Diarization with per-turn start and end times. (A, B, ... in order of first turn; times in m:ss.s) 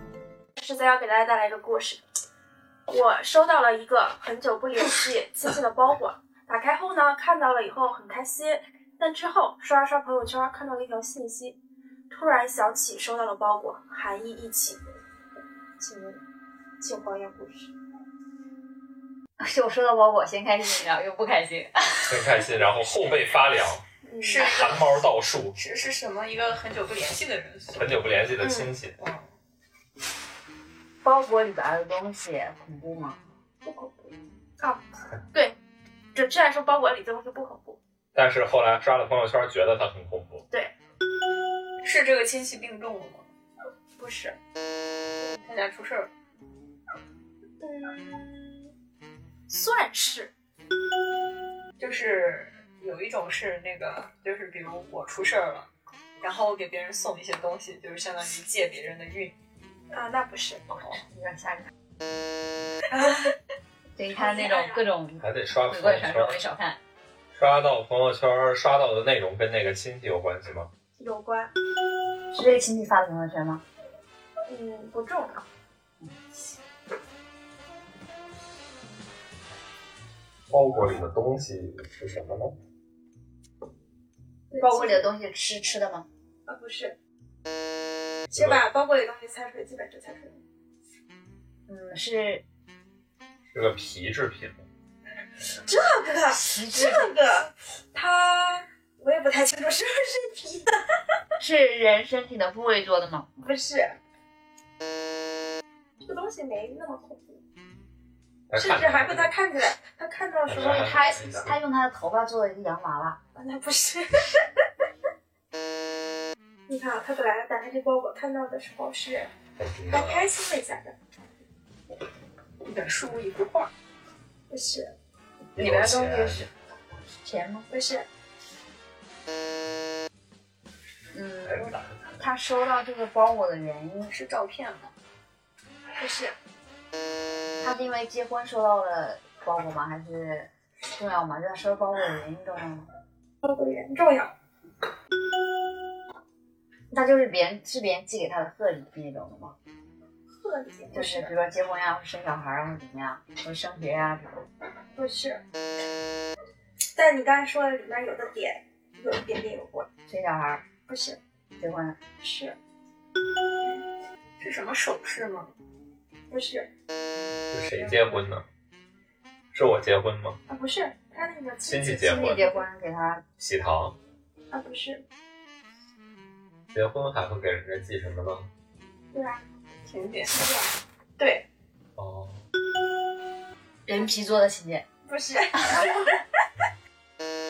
0:00.6-0:02.0 A
0:02.9-0:11.6 A
0:12.1-0:14.8 A
0:15.8-0:16.2 A
0:16.8-0:17.7 A
0:19.4-0:22.4 B
0:22.1-0:23.8 C
0:24.0-0:24.5 A
0:24.2-0:25.0 D
0:24.6-0:25.6 C
0:25.5-0:28.3 D
0:27.8-0:29.0 C
0:28.4-0:28.7 A
0:29.0-0:29.3 D
0:31.0-0:33.2 B
0:33.6-0:35.6 A
0:36.1-0:37.8 A
0:38.1-0:40.4 C
0:41.8-0:43.2 D
0:44.0-0:44.4 A
0:45.2-0:46.1 D
0:47.6-0:48.7 A
0:49.5-0:50.3 A
0:51.8-0:55.7 D
0:56.2-0:59.3 D
0:59.9-1:00.6 A
1:00.9-1:01.6 B
1:02.9-1:03.3 A
1:04.0-1:06.8 B
1:04.2-1:04.8 A
1:05.2-1:06.4 C
1:07.3-1:10.7 C
1:11.0-1:11.5 A
1:12.3-1:13.6 B
1:14.5-1:15.4 A
1:20.5-1:22.6 C
1:24.5-1:25.1 A
1:24.6-1:26.1 B
1:26.5-1:26.9 A
1:28.3-1:30.4 A
1:28.3-1:28.6 C
1:31.7-1:32.4 B
1:33.5-1:34.6 C
1:35.6-1:40.8 A
1:36.3-1:37.1 B
1:41.4-1:43.3 B
1:43.4-1:43.9 A
1:46.0-1:47.4 A
1:48.5-1:49.3 C
1:48.6-1:51.1 A
1:50.5-1:51.6 C
1:50.6-1:53.2 B
1:53.3-1:54.4 A
1:56.7-1:59.3 A
1:59.6-2:00.3 C
1:59.9-2:00.9 A
2:02.6-2:03.7 D
2:04.5-2:04.9 A
2:05.5-2:06.5 B
2:05.6-2:06.5 C
2:07.2-2:07.7 B
2:07.7-2:08.0 A
2:11.1-2:14.1 B
2:11.4-2:12.2 C
2:14.1-2:14.9 D
2:16.0-2:16.3 A
2:17.6-2:22.9 B
2:23.4-2:24.3 A
2:26.9-2:29.6 B
2:30.4-2:31.3 A
2:30.9-2:34.4 B
2:34.9-2:35.4 A
2:36.9-2:39.9 A
2:40.1-2:40.6 B
2:40.9-2:41.2 A
2:41.6-2:42.0 B
2:42.2-2:42.6 A
2:44.4-2:45.5 D
2:46.3-2:46.7 A
2:47.5-2:48.4 C
2:49.5-2:50.4 C
2:50.5-2:52.6 A
2:51.6-2:52.4 C
2:52.1-2:53.2 B
2:53.4-2:54.0 C
2:54.5-2:55.0 A
2:56.7-2:58.5 C
2:59.1-2:59.4 A
2:59.8-3:00.3 D
3:00.2-3:01.5 A
3:02.0-3:02.4 C
3:03.8-3:04.8 B
3:05.0-3:06.1 A